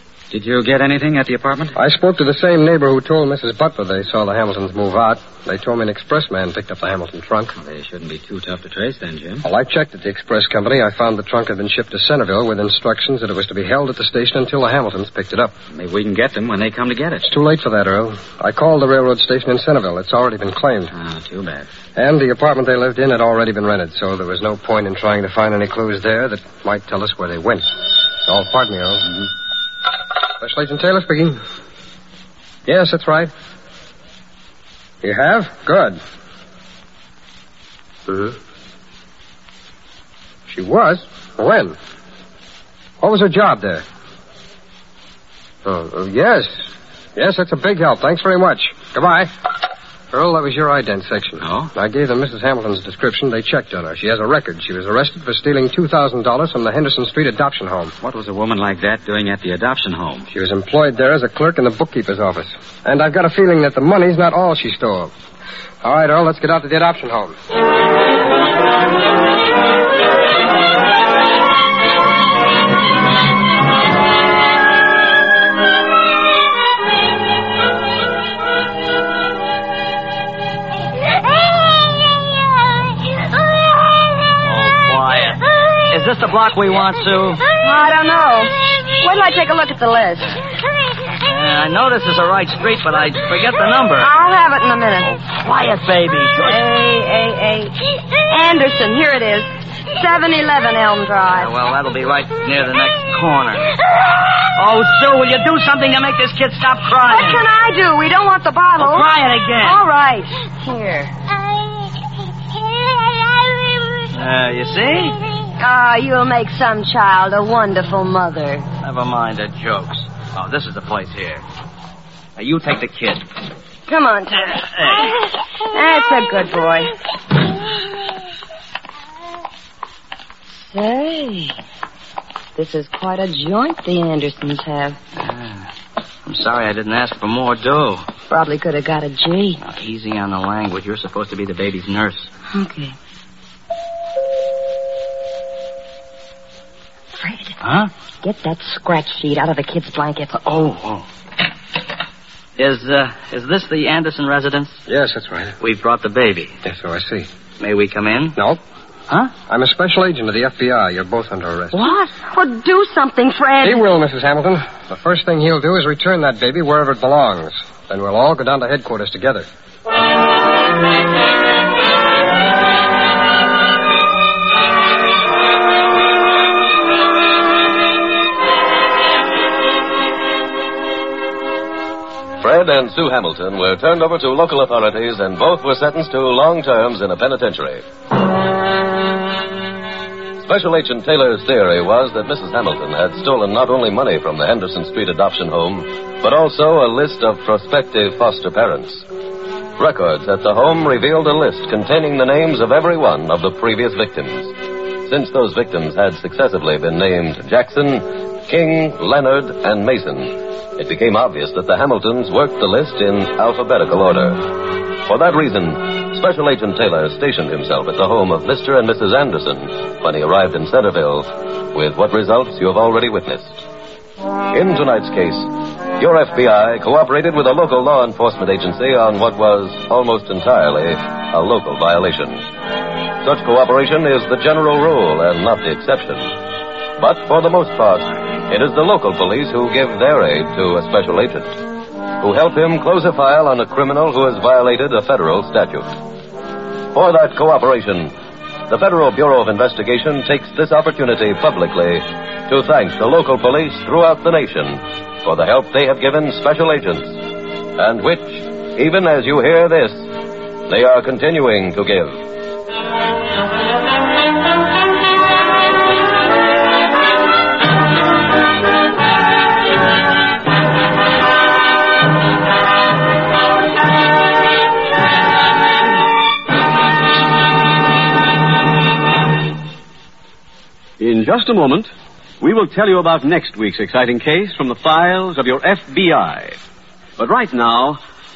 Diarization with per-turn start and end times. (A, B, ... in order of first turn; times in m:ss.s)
0:00.3-0:01.8 A
0:01.8-0:07.5 B
0:07.6-0:09.4 A
0:09.4-0:15.5 B
0:15.7-0:17.3 A
0:17.2-0:20.9 B
0:20.9-0:21.7 A
0:21.9-0:29.2 B
0:30.4-0:31.4 B
0:32.6-0:33.3 B
0:35.0-0:36.0 B
0:38.1-0:38.3 B
0:40.5-0:41.8 B
0:43.0-0:43.8 B
0:45.6-0:49.3 B
0:50.1-0:57.9 B
0:51.4-0:51.7 A
0:58.0-1:00.3 A
1:00.3-1:05.1 B
1:05.8-1:07.3 B
1:24.4-1:27.4 C
1:27.6-1:30.4 D
1:31.2-1:34.1 C
1:34.0-1:35.1 D
1:35.1-1:36.6 C
1:36.4-1:37.8 D
1:38.3-1:41.5 D
1:41.3-1:43.7 C
1:44.5-1:47.4 C
1:47.1-1:49.1 D
1:48.8-1:49.8 C
1:49.6-1:51.1 D
1:54.1-1:55.2 C
1:55.6-1:58.6 D
1:58.8-2:01.4 C
2:02.4-2:03.3 C
2:03.9-2:05.1 D
2:04.6-2:05.1 C
2:05.7-2:06.9 D
2:10.7-2:11.6 D
2:12.6-2:15.0 D
2:15.2-2:15.7 C
2:16.2-2:18.0 C
2:18.3-2:19.6 D
2:19.6-2:22.3 C
2:22.5-2:23.0 D
2:27.2-2:27.5 D
2:27.6-2:27.9 C
2:28.2-2:30.3 D
2:30.3-2:31.0 C
2:32.6-2:34.8 C
2:34.9-2:35.6 B
2:35.6-2:36.6 C
2:36.6-2:37.3 B
2:37.6-2:38.4 C
2:39.5-2:41.9 B
2:41.9-2:43.8 D
2:43.6-2:49.5 B
3:02.4-3:07.8 E
3:10.4-3:19.0 E
3:19.8-3:24.5 E
3:25.0-3:34.4 E
3:35.0-3:43.6 E
3:44.5-3:52.4 E
3:53.2-3:56.3 E
3:57.0-4:01.6 E
4:02.2-4:05.9 E
4:06.9-4:08.1 E
4:08.7-4:17.2 E
4:17.8-4:20.1 E
4:20.7-4:22.2 E
4:41.0-4:41.9 F
4:42.4-4:46.6 F
4:47.2-4:48.0 F